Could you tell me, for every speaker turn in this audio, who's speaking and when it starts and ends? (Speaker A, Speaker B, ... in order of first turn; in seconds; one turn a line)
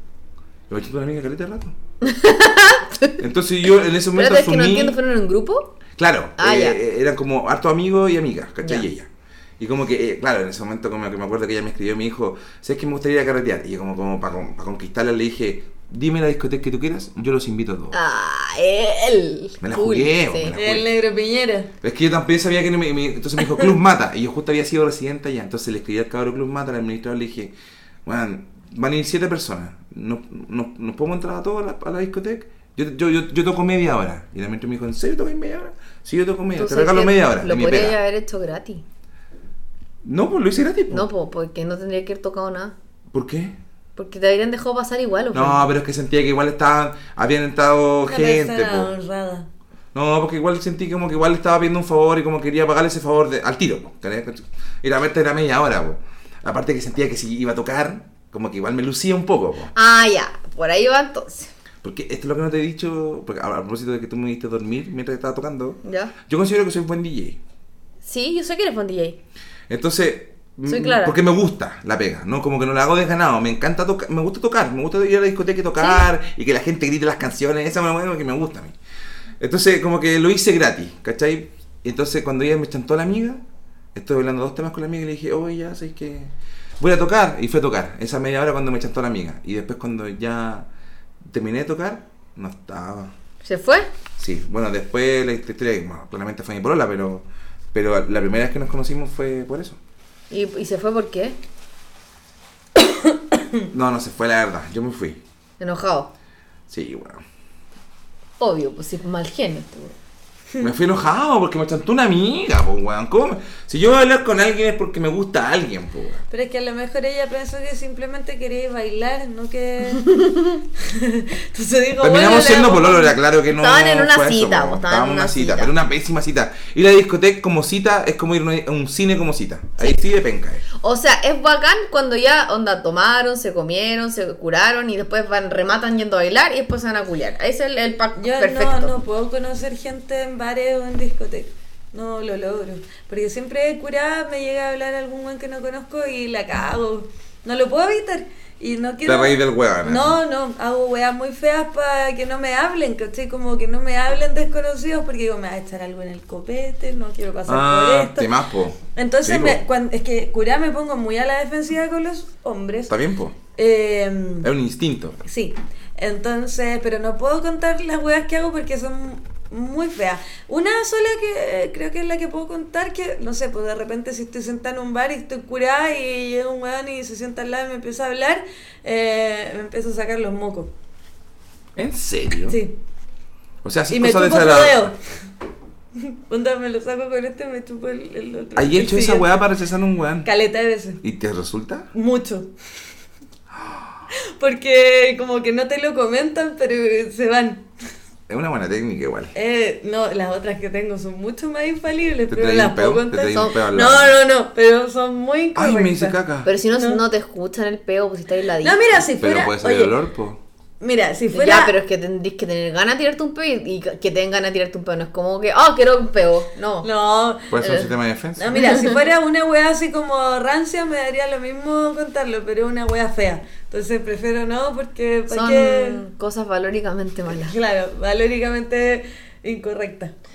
Speaker A: 0.7-1.7
Speaker B: 2.0-3.2
Speaker A: 3.2-5.0
Speaker B: 4.1-5.7
Speaker A: 6.0-17.9
Speaker B: 6.4-6.8
Speaker B: 17.9-20.5
Speaker A: 19.6-20.9
Speaker C: 20.5-21.7
Speaker A: 21.8-27.5
Speaker A: 28.0-38.0
Speaker B: 36.5-38.8
Speaker A: 40.0-41.1
Speaker B: 40.9-42.7
Speaker A: 43.1-43.5
Speaker B: 44.0-45.7
Speaker A: 45.3-48.9
Speaker C: 48.1-49.5
Speaker A: 49.9-59.7
Speaker B: 59.7-61.5
Speaker A: 61.8-67.4
Speaker B: 65.8-66.1
Speaker B: 68.0-69.2
Speaker A: 69.7-78.8
Speaker B: 70.7-71.2
Speaker B: 75.8-76.0
Speaker A: 79.4-83.4
Speaker A: 83.9-90.7
Speaker A: 91.2-93.1
Speaker B: 93.4-93.9
Speaker A: 94.2-99.8
Speaker B: 100.3-101.4
Speaker A: 103.7-105.2
Speaker B: 105.6-106.1
Speaker A: 106.7-107.2
Speaker B: 108.4-109.9
Speaker A: 110.6-116.2
Speaker C: 116.3-120.1
Speaker B: 120.0-120.6
Speaker C: 120.8-123.2
Speaker A: 122.0-130.6
Speaker B: 123.5-125.7
Speaker B: 130.8-138.9
Speaker C: 138.2-158.3
Speaker A: 149.0-150.2
Speaker A: 157.4-159.6
Speaker C: 158.9-162.9
Speaker A: 162.9-163.3
Speaker C: 163.6-164.5
Speaker A: 164.4-165.2
Speaker C: 165.2-180.7
Speaker A: 181.8-182.6
Speaker C: 182.5-182.7
Speaker A: 183.6-184.9
Speaker C: 183.9-185.0
Speaker C: 185.9-189.3
Speaker A: 188.6-190.3
Speaker C: 190.2-191.0
Speaker A: 191.0-191.9
Speaker C: 191.9-192.5
Speaker A: 193.5-194.0
Speaker C: 194.4-197.7
Speaker A: 198.3-199.3
Speaker C: 199.3-206.2
Speaker A: 202.3-204.2
Speaker A: 205.5-206.5
Speaker B: 206.4-208.8
Speaker C: 206.7-207.0
Speaker C: 208.6-210.0
Speaker A: 209.1-210.4
Speaker C: 210.8-211.7
Speaker B: 211.3-216.9
Speaker C: 216.8-217.8
Speaker A: 217.5-218.6
Speaker C: 218.4-226.0
Speaker B: 225.3-227.6
Speaker C: 227.3-230.1